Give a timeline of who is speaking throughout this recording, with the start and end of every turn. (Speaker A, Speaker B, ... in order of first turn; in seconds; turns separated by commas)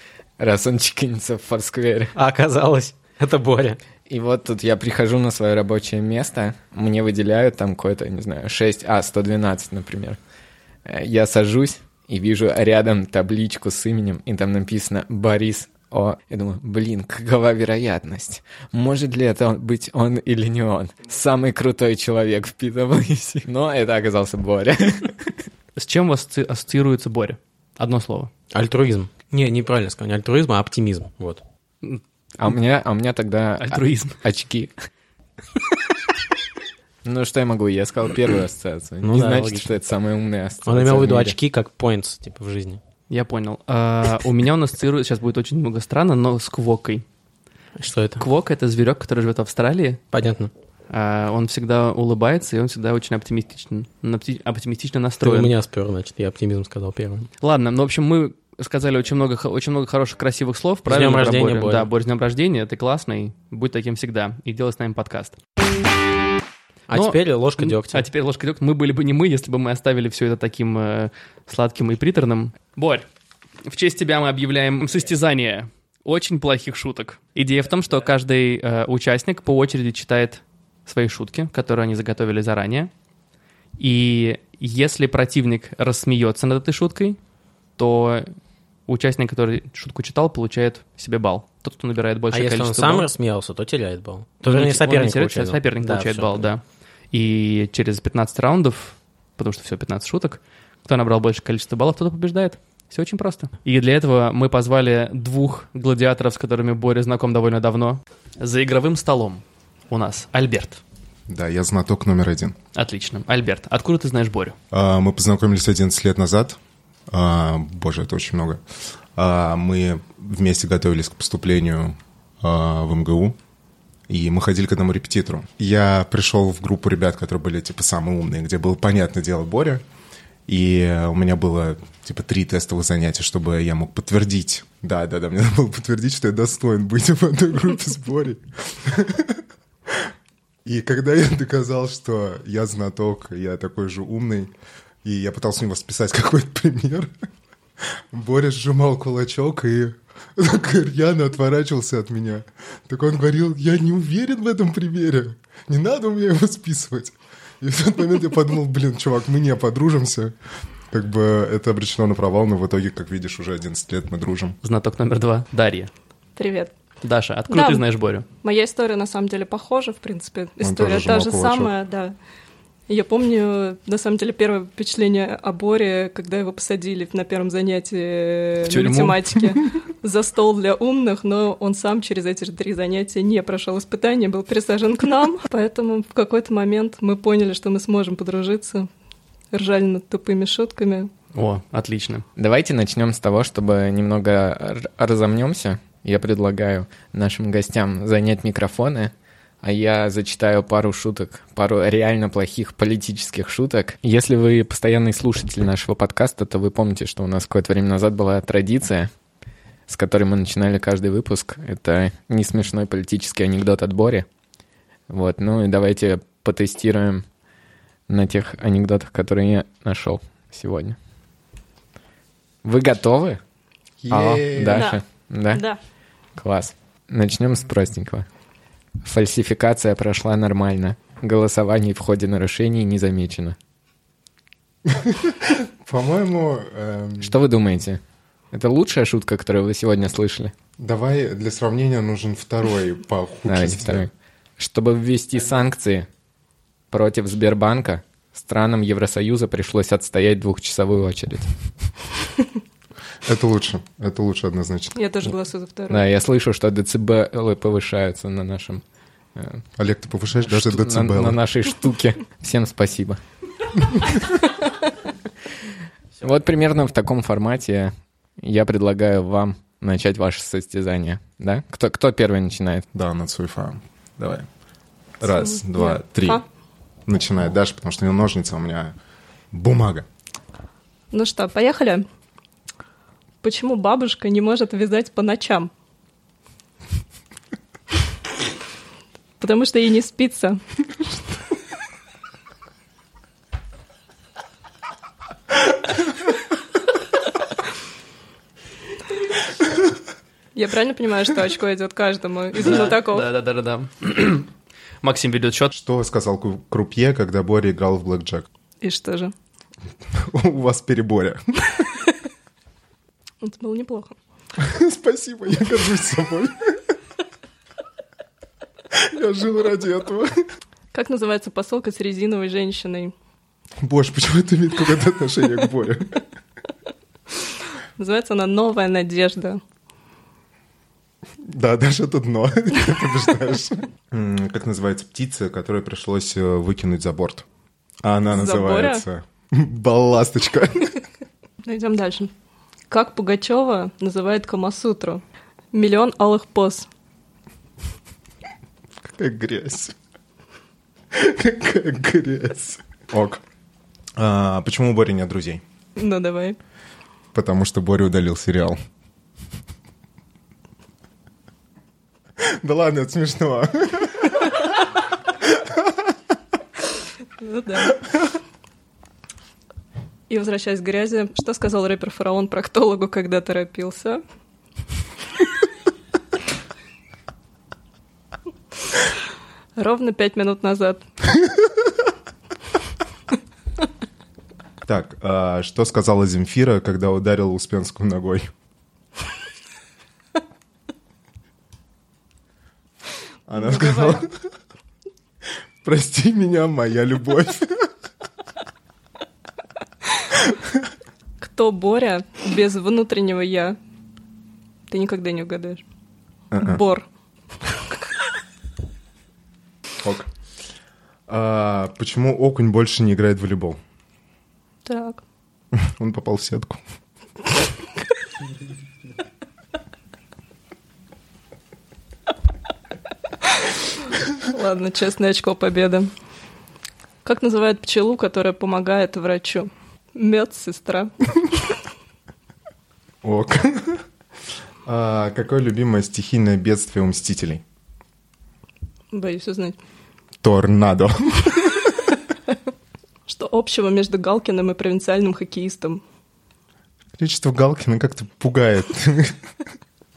Speaker A: 0.4-2.1, Speaker B: 2.1-3.8, Speaker A: 4.1-10.2, Speaker A: 10.9-25.3, Speaker C: 25.8-28.3, Speaker B: 28.5-31.4, Speaker A: 32.4-34.7, Speaker C: 33.6-34.1, Speaker A: 37.0-41.4, Speaker B: 39.0-39.6, Speaker B: 40.6-42.8, Speaker C: 43.1-47.0, Speaker B: 47.8-48.2, Speaker C: 48.2-50.0, Speaker B: 50.1-50.5, Speaker C: 50.9-55.5, Speaker B: 55.2-57.3, Speaker C: 57.4-65.4, Speaker B: 60.9-61.9, Speaker B: 66.9-68.1, Speaker C: 66.9-73.0, Speaker C: 73.7-82.9, Speaker C: 83.8-87.2, Speaker C: 87.8-88.3, Speaker C: 88.9-93.1, Speaker B: 92.3-96.5, Speaker C: 94.4-110.8, Speaker D: 111.3-112.5, Speaker C: 112.7-114.5, Speaker D: 114.7-116.6, Speaker D: 117.1-118.6, Speaker D: 119.2-123.4, Speaker D: 124.1-129.8, Speaker D: 130.5-139.4, Speaker D: 140.6-144.5, Speaker D: 145.0-147.1, Speaker D: 148.1-160.3, Speaker D: 160.9-164.6, Speaker C: 164.6-165.9, Speaker E: 166.3-166.7, Speaker C: 167.0-168.2, Speaker E: 167.5-167.8, Speaker E: 168.4-172.1, Speaker D: 170.6-171.7, Speaker E: 172.9-188.9, Speaker C: 178.6-179.2, Speaker E: 189.5-191.1, Speaker C: 191.3-192.2, Speaker A: 192.4-209.1, Speaker A: 209.9-214.2, Speaker A: 215.1-217.2, Speaker A: 218.1-221.0, Speaker A: 222.6-223.4, Speaker D: 224.0-224.9, Speaker A: 224.1-225.6, Speaker E: 224.7-225.0, Speaker E: 225.5-225.8, Speaker A: 226.4-228.2, Speaker A: 229.0-233.6, Speaker D: 234.9-237.3, Speaker A: 237.2-238.0, Speaker A: 238.5-240.5, Speaker D: 240.8-244.1, Speaker A: 243.5-246.1, Speaker A: 246.9-251.5, Speaker D: 253.2-254.9, Speaker E: 254.9-256.0, Speaker A: 255.9-258.8, Speaker A: 259.4-259.6, Speaker D: 259.8-261.4, Speaker A: 260.4-263.2, Speaker A: 266.2-272.9, Speaker D: 272.9-274.5, Speaker D: 275.2-276.4, Speaker E: 275.3-276.4, Speaker D: 277.1-278.9, Speaker D: 279.5-280.1, Speaker E: 281.1-282.0, Speaker E: 283.4-285.7, Speaker E: 289.4-290.6, Speaker E: 300.5-303.3, Speaker C: 302.6-304.5, Speaker C: 305.0-305.7, Speaker D: 305.7-308.4, Speaker E: 308.8-309.3, Speaker D: 310.2-311.8, Speaker E: 313.4-314.1, Speaker D: 314.6-316.8, Speaker D: 318.9-320.4, Speaker E: 320.9-323.1, Speaker D: 323.8-326.2, Speaker E: 328.0-329.6, Speaker D: 331.4-337.4, Speaker D: 338.0-341.0, Speaker E: 338.3-339.0, Speaker E: 341.6-342.3, Speaker E: 342.9-346.9, Speaker D: 349.1-349.9, Speaker D: 351.1-353.4, Speaker D: 354.2-355.6, Speaker E: 355.9-356.6, Speaker D: 357.3-358.8, Speaker D: 362.6-364.6, Speaker E: 367.4-367.9, Speaker E: 370.3-374.2, Speaker E: 379.8-381.1, Speaker D: 384.9-388.5, Speaker D: 393.5-394.3, Speaker D: 395.8-397.9, Speaker E: 401.4-403.8, Speaker E: 404.9-405.8, Speaker D: 406.5-406.8, Speaker E: 406.6-407.0, Speaker D: 410.0-410.3, Speaker D: 411.3-413.8, Speaker E: 414.8-415.2, Speaker D: 415.8-416.8, Speaker E: 424.5-426.1, Speaker E: 427.2-431.1, Speaker D: 433.2-434.0, Speaker D: 434.9-437.6, Speaker E: 439.1-439.8, Speaker D: 440.4-442.0, Speaker E: 443.3-446.0, Speaker D: 447.2-449.4